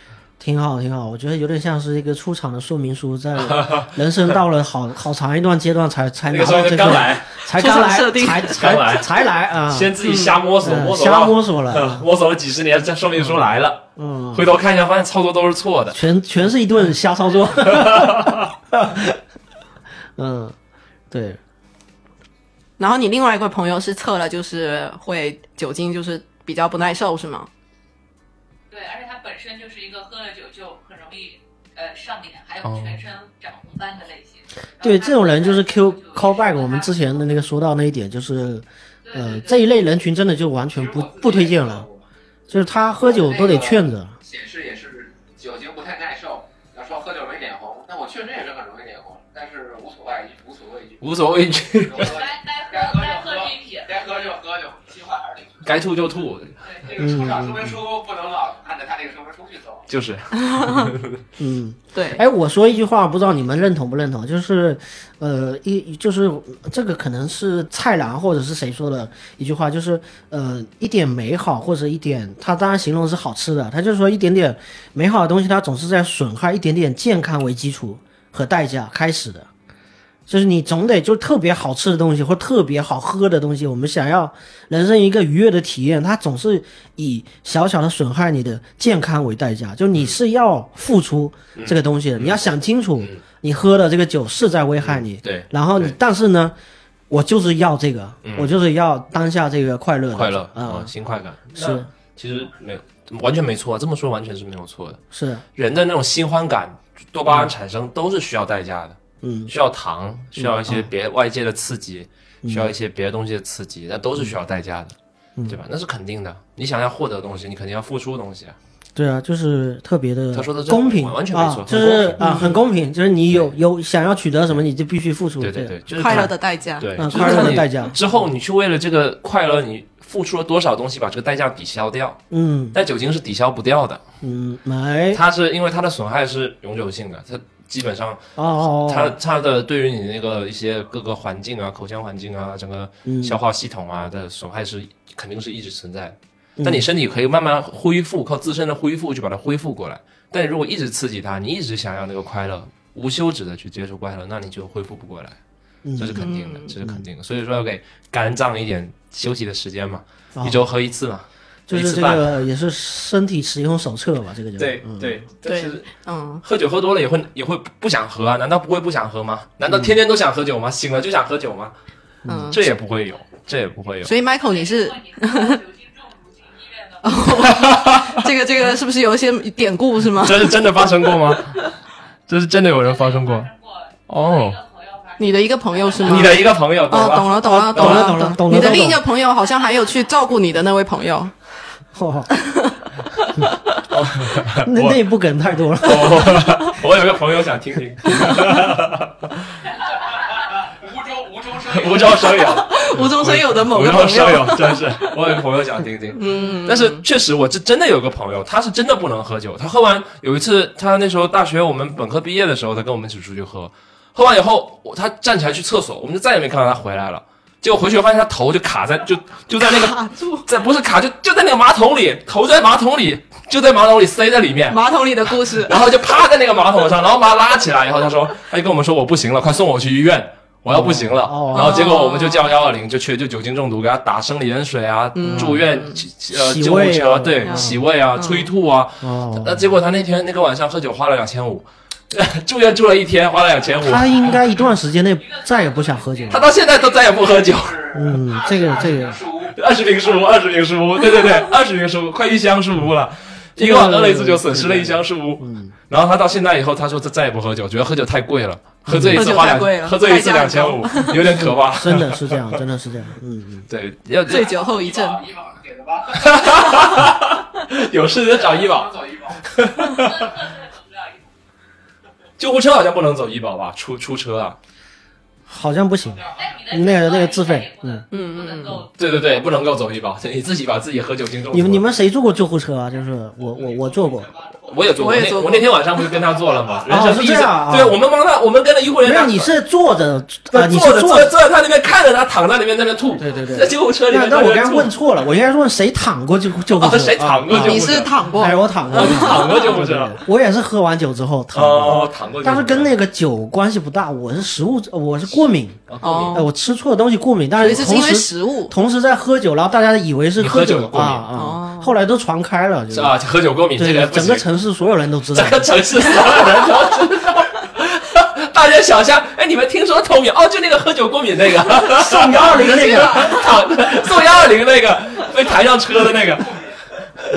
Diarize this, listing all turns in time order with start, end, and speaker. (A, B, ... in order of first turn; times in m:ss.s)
0:00.4-0:12.0 A
0:03.4-0:03.9 B
0:06.3-0:07.3 B
0:07.5-0:08.6 C
0:08.5-0:09.1 B
0:09.7-0:16.0 B
0:14.0-0:14.4 A
0:15.9-0:19.2 A
0:17.7-0:18.4 B
0:20.2-0:20.6 A
0:21.1-0:21.4 A
0:22.8-0:27.5 C
0:28.7-0:37.1 D
0:32.6-0:33.0 B
0:34.8-0:41.9 A
0:39.0-0:39.6 D
0:40.7-0:42.0 E
0:42.5-0:44.2 A
0:42.9-0:51.1 E
0:51.0-0:52.2 B
0:51.8-0:55.6 E
0:52.0-0:54.1 D
0:55.6-0:56.6 B
0:56.6-0:56.9 D
0:56.8-0:59.9 E
0:57.0-0:57.7 A
0:59.9-1:01.2 B
1:00.4-1:00.9 C
1:01.4-1:19.5 A
1:01.9-1:02.2 C
1:20.3-1:36.5 A
1:31.6-1:32.4 B
1:34.8-1:36.0 B
1:37.1-1:40.9 A
1:38.2-1:38.5 B
1:40.1-1:45.0 B
1:41.6-1:41.9 A
1:45.1-1:45.4 A
1:45.6-1:55.0 B
1:49.2-1:49.5 A
1:50.4-1:50.9 A
1:52.4-1:52.7 A
1:55.5-1:58.6 B
1:59.0-2:06.3 A
2:00.3-2:02.3 B
2:02.2-2:02.5 C
2:05.4-2:12.2 B
2:06.0-2:07.6 C
2:07.0-2:08.0 A
2:12.3-2:12.8 A
2:12.7-2:14.0 B
2:14.2-2:15.2 A
2:15.1-2:35.4 B
2:18.4-2:19.2 A
2:23.1-2:23.4 A
2:26.6-2:26.9 A
2:35.8-2:36.3 A
2:36.0-2:42.3 B
2:36.2-2:36.7 C
2:40.4-2:40.6 A
2:41.7-2:45.2 A
2:44.6-2:45.9 B
2:45.4-2:46.4 C
2:46.4-2:51.7 B
2:49.7-2:50.0 A
2:52.2-2:52.5 A
2:52.3-2:52.6 C
2:52.5-2:54.1 B
2:54.0-2:55.6 C
2:54.4-2:57.5 D
2:57.0-3:00.5 C
2:57.5-2:58.2 B
3:00.2-3:01.7 B
3:02.3-3:03.5 B
3:02.8-3:06.2 D
3:04.1-3:04.6 B
3:05.2-3:11.3 C
3:06.0-3:08.8 B
3:07.4-3:09.0 A
3:09.3-3:10.1 D
3:11.9-3:12.3 A
3:12.4-3:13.6 C
3:13.9-3:15.0 B
3:14.6-3:16.6 A
3:15.8-3:19.4 B
3:18.1-3:18.7 A
3:20.7-3:22.6 E
3:21.6-4:04.4 B
3:22.5-3:25.1 C
3:26.1-3:27.0 C
3:39.8-3:40.4 C
3:44.7-3:45.8 C
3:50.7-3:51.9 A
3:51.5-3:52.5 C
3:55.2-3:56.0 C
3:55.3-3:55.6 A
3:56.3-3:57.8 A
3:57.4-3:58.5 C
3:59.0-3:59.7 A
4:03.8-4:06.5 A
4:05.2-4:06.4 D
4:06.3-4:08.2 B
4:06.6-4:10.4 E
4:07.9-4:09.2 A
4:09.5-4:22.6 B
4:13.6-4:15.7 A
4:18.9-4:19.3 A
4:19.2-4:21.2 C
4:21.4-4:23.7 A
4:23.7-4:24.5 B
4:24.3-4:25.2 C
4:24.3-4:26.8 E
4:26.1-4:30.3 B
4:28.2-4:29.4 E
4:29.8-4:31.3 D
4:32.4-4:34.6 B
4:35.5-4:38.0 A
4:36.1-4:36.4 E
4:36.4-4:38.9 D
4:38.1-4:38.9 C
4:39.0-4:41.8 B
4:41.5-4:44.3 A
4:44.7-4:49.5 B
4:45.0-4:45.8 C
4:46.9-4:48.0 A
4:49.0-4:51.3 A
4:50.5-4:54.9 B
4:53.2-5:13.2 A
4:56.8-4:58.2 B
4:57.5-4:59.6 C
4:58.9-5:00.2 B
5:01.5-5:02.9 B
5:05.9-5:06.4 B
5:06.0-5:06.5 C
5:07.6-5:08.7 C
5:10.4-5:11.3 B
5:11.3-5:11.9 C
5:12.9-5:14.5 B
5:13.8-5:15.7 A
5:15.3-5:26.7 B
5:21.8-5:23.4 A
5:22.5-5:23.4 C